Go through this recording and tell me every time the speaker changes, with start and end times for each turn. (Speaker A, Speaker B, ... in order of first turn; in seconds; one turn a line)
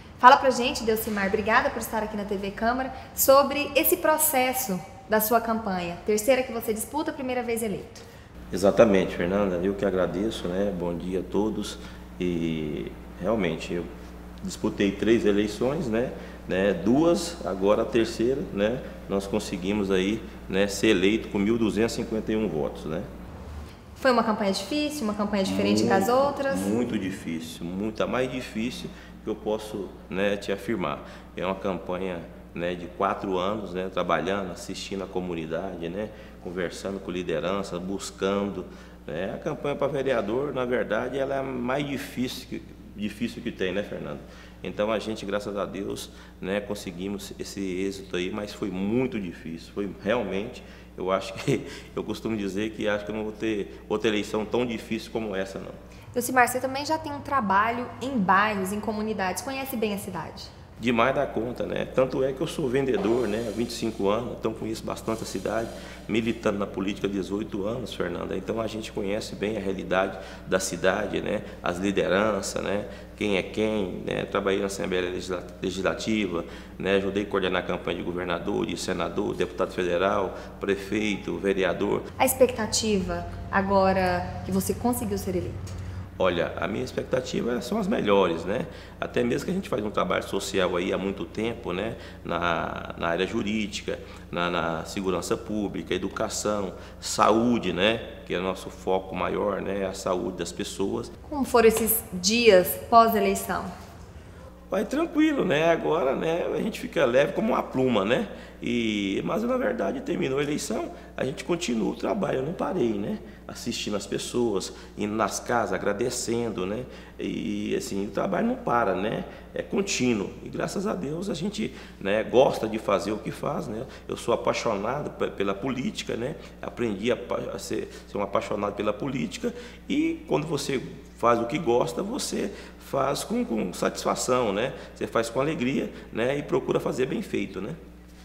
Speaker A: 0.2-8.0
Speaker B: 8.5-13.8
Speaker B: 14.4-23.1
Speaker A: 24.0-26.7
Speaker B: 25.4-55.8
Speaker A: 56.1-60.5
Speaker B: 60.8-82.0
Speaker A: 82.2-85.6
Speaker B: 86.2-101.1
Speaker A: 101.3-103.7
Speaker B: 104.7-137.8